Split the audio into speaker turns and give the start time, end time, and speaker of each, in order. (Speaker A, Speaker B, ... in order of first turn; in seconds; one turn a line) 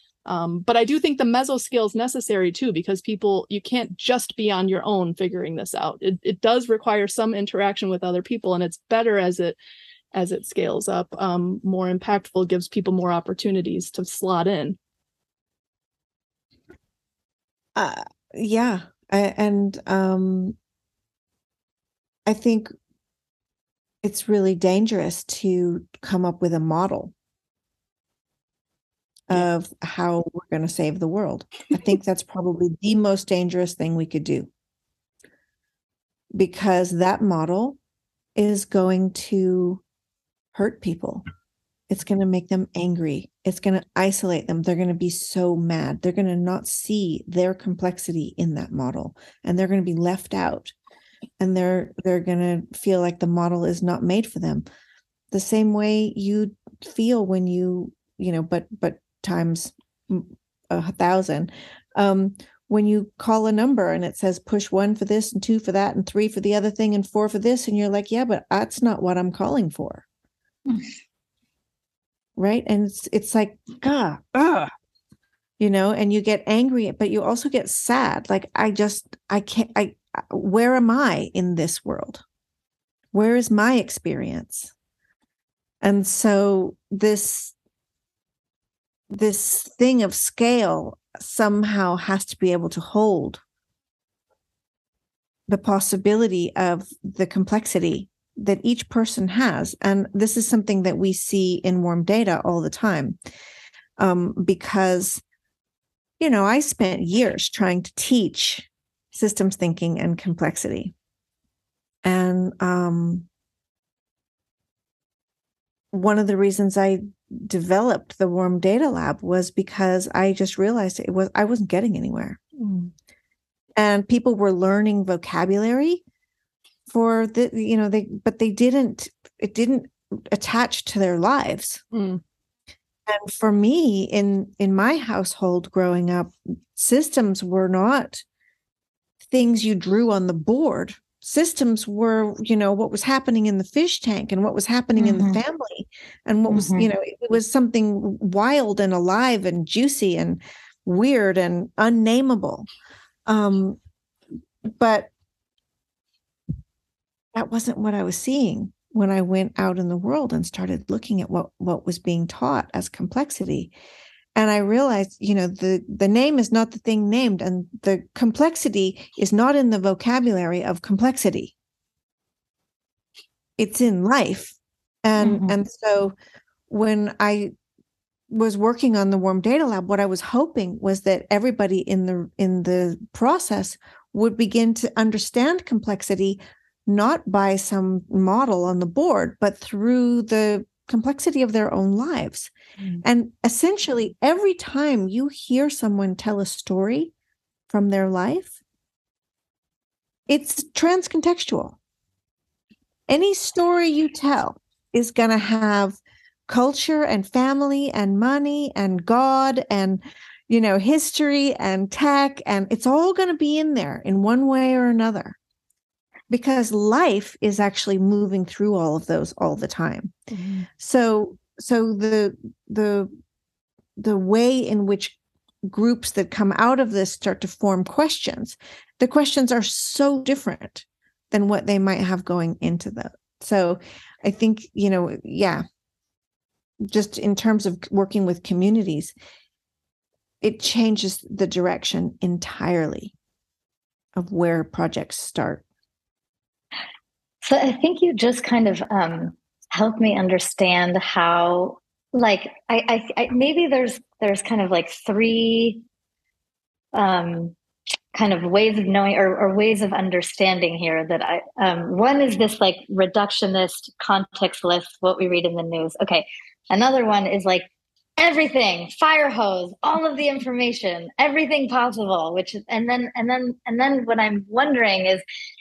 Speaker A: 0.3-9.6
Speaker A: 10.1-14.8
Speaker B: 17.8-20.6
Speaker B: 22.3-22.7
Speaker B: 24.0-27.1
Speaker B: 29.3-34.5
Speaker B: 36.4-37.8
Speaker B: 38.4-39.8
Speaker B: 40.5-41.2
Speaker B: 41.9-50.7
Speaker B: 51.4-54.6
Speaker B: 55.3-70.0
Speaker B: 72.4-74.7
Speaker B: 75.6-82.2
Speaker B: 83.1-84.7
Speaker B: 85.8-87.5
Speaker B: 89.1-93.4
Speaker B: 95.5-103.2
Speaker B: 104.0-105.2
Speaker B: 106.2-110.9
Speaker B: 112.0-113.3
Speaker B: 115.9-122.4
Speaker A: 122.6-122.9
Speaker B: 123.8-126.0
Speaker B: 126.9-131.8
Speaker A: 131.9-132.2
Speaker B: 133.1-138.2
Speaker B: 139.3-152.7
Speaker C: 145.0-145.4
Speaker C: 146.5-146.9
Speaker B: 153.3-153.8
Speaker B: 154.7-155.1
Speaker B: 157.3-163.7
Speaker B: 164.3-171.5
Speaker B: 173.6-176.2
Speaker C: 175.2-175.6
Speaker B: 176.7-177.5
Speaker B: 178.3-197.1
Speaker B: 197.7-198.6
Speaker B: 200.3-201.8
Speaker B: 203.1-215.4
Speaker B: 216.3-220.2
Speaker A: 220.3-220.7
Speaker B: 220.8-223.1
Speaker B: 224.0-235.6
Speaker B: 236.9-239.1
Speaker B: 240.4-243.1
Speaker B: 244.2-245.6
Speaker C: 247.4-255.8
Speaker C: 256.9-257.6
Speaker C: 258.1-267.7
Speaker C: 268.2-275.2